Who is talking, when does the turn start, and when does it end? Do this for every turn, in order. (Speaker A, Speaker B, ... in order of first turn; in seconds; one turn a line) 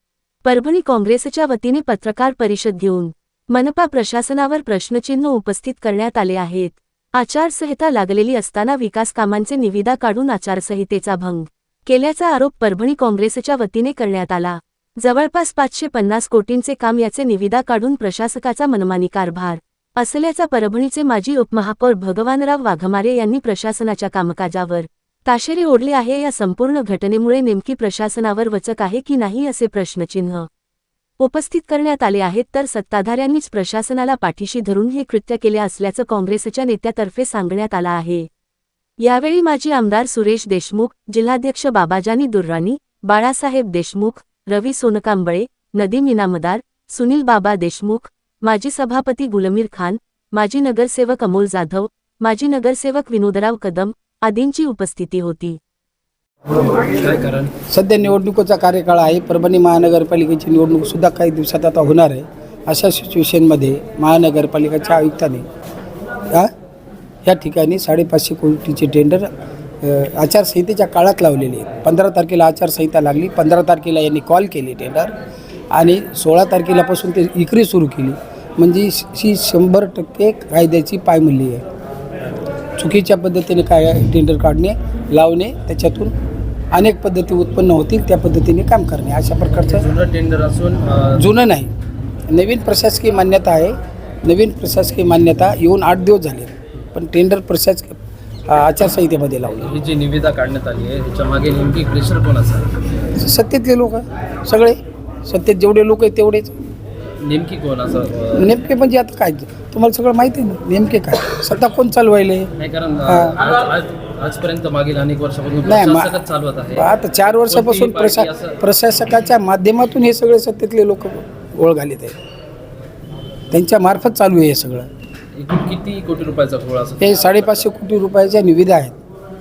Speaker A: 0.4-30.5
Speaker A: 31.2-38.3
Speaker A: 39.0-55.6
Speaker B: 56.5-57.5
Speaker C: 57.7-65.5
Speaker C: 67.2-69.3
Speaker C: 69.8-75.1
Speaker C: 75.7-81.6
Speaker C: 82.8-86.1
Speaker C: 86.7-89.9
Speaker B: 89.5-91.2
Speaker C: 91.2-91.7
Speaker C: 92.3-98.0
Speaker C: 98.5-99.7
Speaker B: 99.5-102.7
Speaker C: 103.2-106.5
Speaker B: 107.2-108.5
Speaker C: 108.3-112.5
Speaker B: 112.6-118.6
Speaker C: 113.0-113.4
Speaker C: 115.6-116.1
Speaker C: 116.7-122.2
Speaker C: 123.5-124.9
Speaker B: 125.3-127.3
Speaker C: 127.0-128.9